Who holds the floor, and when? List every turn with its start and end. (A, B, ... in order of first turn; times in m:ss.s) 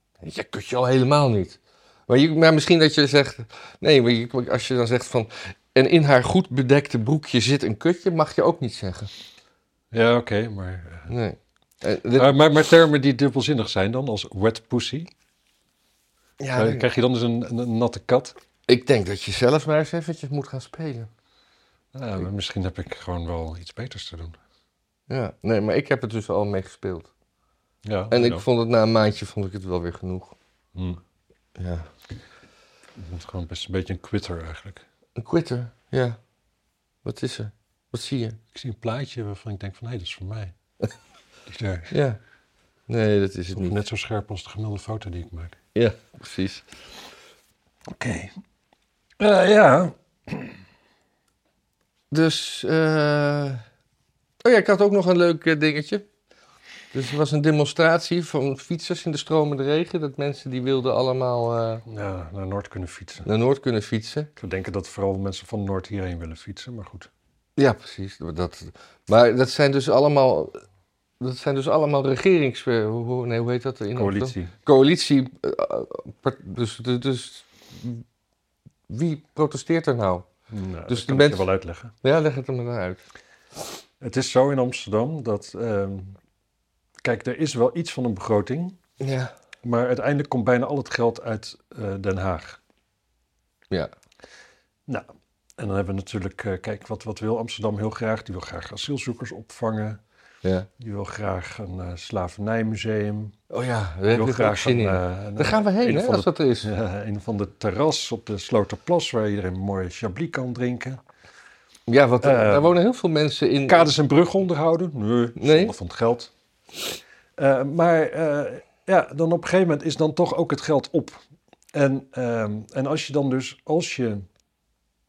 0:00.2-0:09.1 A
0:09.9-0:11.1 B
0:11.1-0:12.3 A
0:12.2-0:15.1 B
0:16.4-0:16.8 A
0:16.5-0:18.4 B
0:18.7-0:21.1 A
0:21.9-0:24.4 B
0:25.1-0:27.1 A
0:27.8-0:28.4 B
0:28.1-0:30.3 A
0:30.7-0:31.0 B
0:31.6-0:31.9 A
0:33.0-0:34.8 B
0:35.2-0:36.2 A
0:37.0-0:38.4 A
0:38.5-0:40.5 B
0:41.5-0:41.9 B
0:41.9-0:42.2 A
0:42.9-0:43.8 A
0:43.5-0:45.6 B
0:45.7-0:46.7 A
0:47.9-0:48.3 B
0:49.2-0:50.5 B
0:52.1-0:53.6 A
0:54.4-0:56.0 A
0:56.9-1:01.8 A
1:01.9-1:03.3 B
1:03.2-1:04.3 A
1:04.4-1:07.1 B
1:07.6-1:10.6 A
1:11.2-1:18.0 A
1:14.0-1:14.5 B
1:18.9-1:20.3 A
1:20.5-1:21.9 B
1:20.9-1:21.4 A
1:22.0-1:23.0 A
1:24.0-1:26.2 B
1:27.0-1:28.8 B
1:29.0-1:29.3 A
1:29.6-1:32.6 B
1:35.6-1:40.0 B
1:40.4-1:40.7 A
1:40.8-1:43.3 B
1:43.5-1:46.7 A
1:44.1-1:51.0 B
1:51.9-1:53.8 A
1:52.2-1:52.7 B
1:53.7-1:56.3 B
1:55.4-1:55.7 A
1:57.4-2:01.2 B
2:01.7-2:04.2 B